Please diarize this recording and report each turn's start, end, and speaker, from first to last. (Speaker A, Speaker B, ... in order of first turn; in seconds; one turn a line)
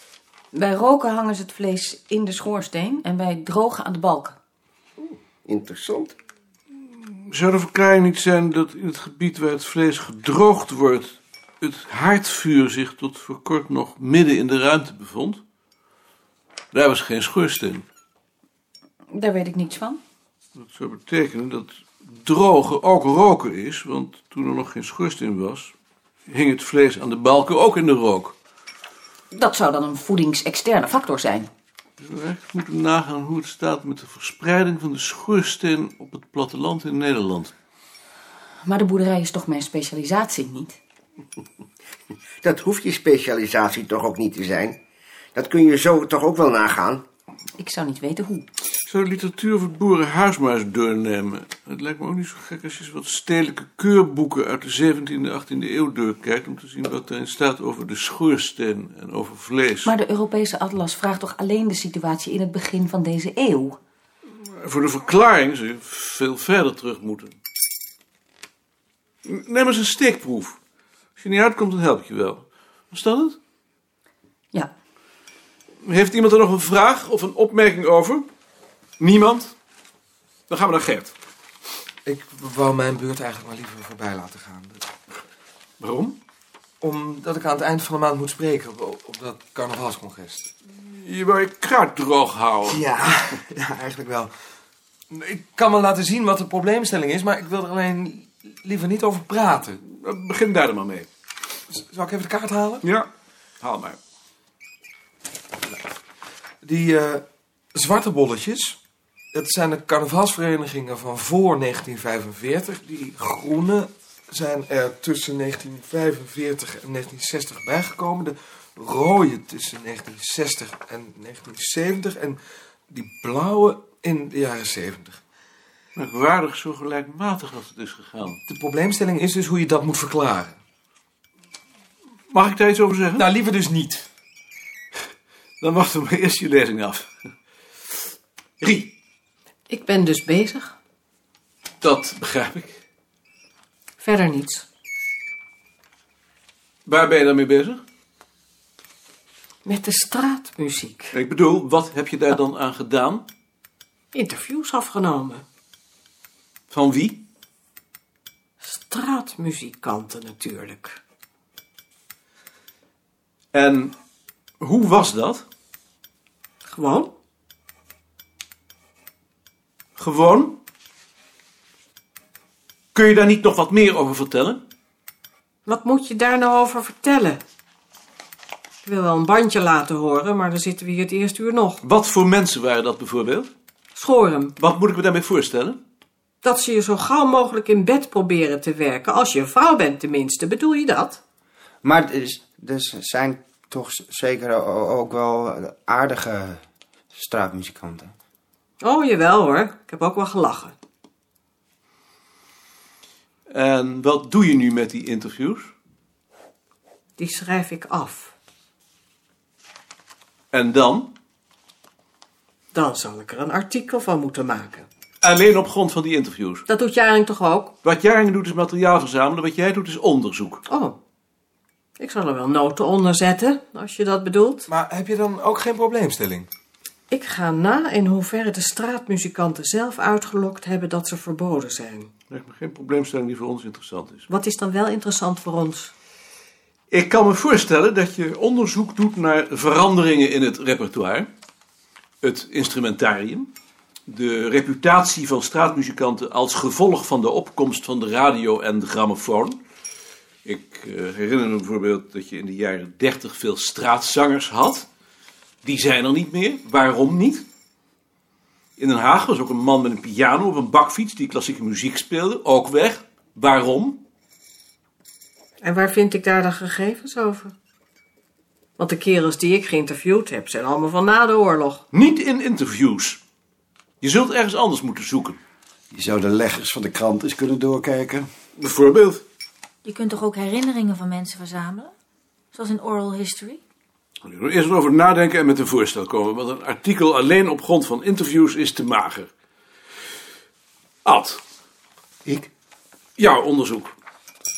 Speaker A: 0.5-4.4
Speaker B: 5.4-6.1
Speaker C: 7.3-15.4
Speaker C: 16.7-17.8
Speaker A: 19.1-20.0
Speaker C: 20.6-25.7
Speaker C: 26.3-28.3
Speaker A: 29.3-31.5
Speaker C: 32.0-37.5
Speaker A: 38.6-40.8
Speaker B: 42.4-44.8
Speaker B: 45.3-47.0
Speaker A: 47.6-48.5
Speaker C: 48.9-59.9
Speaker A: 59.8-63.8
Speaker C: 64.6-67.3
Speaker C: 69.2-70.6
Speaker C: 71.2-73.4
Speaker C: 75.8-78.3
Speaker C: 79.0-79.5
Speaker C: 80.5-81.1
Speaker D: 82.0-84.8
Speaker C: 85.8-86.2
Speaker D: 86.8-90.5
Speaker C: 90.8-92.9
Speaker D: 92.8-94.3
Speaker D: 95.1-99.8
Speaker C: 99.9-101.1
Speaker D: 101.7-102.8
Speaker C: 102.8-103.1
Speaker C: 103.6-104.0
Speaker D: 106.6-108.8
Speaker D: 109.3-125.2
Speaker C: 126.0-128.4
Speaker D: 128.4-130.6
Speaker C: 132.3-133.2
Speaker D: 133.2-134.1
Speaker C: 135.6-137.1
Speaker C: 138.6-138.9
Speaker E: 139.7-140.7
Speaker C: 141.8-142.8
Speaker E: 144.0-144.6
Speaker C: 146.8-147.8
Speaker E: 149.6-151.2
Speaker C: 151.1-153.3
Speaker E: 154.1-155.4
Speaker C: 156.7-157.2
Speaker E: 158.6-161.0
Speaker C: 163.5-163.9
Speaker C: 164.6-165.4
Speaker E: 166.7-167.1
Speaker C: 170.0-170.6
Speaker C: 172.9-174.6
Speaker E: 175.7-177.4
Speaker E: 178.8-181.8
Speaker C: 181.8-183.5
Speaker E: 183.9-184.6
Speaker C: 184.6-185.8
Speaker E: 186.4-191.2
Speaker F: 191.8-196.6
Speaker F: 197.1-198.1
Speaker E: 198.8-200.7
Speaker C: 203.5-205.7
Speaker E: 207.2-208.3
Speaker C: 210.5-211.1
Speaker E: 212.7-214.8
Speaker C: 215.2-216.6
Speaker E: 216.7-217.7
Speaker C: 217.8-220.6
Speaker E: 220.7-221.0
Speaker E: 222.0-224.7
Speaker D: 224.7-226.5
Speaker E: 227.1-232.1
Speaker C: 232.3-234.2
Speaker E: 234.3-235.9
Speaker C: 236.9-241.3
Speaker C: 242.2-243.5
Speaker C: 244.1-249.6
Speaker C: 250.4-254.9
Speaker C: 255.6-257.4
Speaker C: 258.8-264.0
Speaker E: 265.6-267.5
Speaker E: 268.8-271.8
Speaker C: 271.9-273.2
Speaker C: 274.0-275.4
Speaker G: 275.9-278.2
Speaker C: 278.6-279.2
Speaker H: 279.8-281.9
Speaker H: 282.5-283.6
Speaker C: 284.2-289.3
Speaker C: 291.0-291.4
Speaker C: 293.2-293.9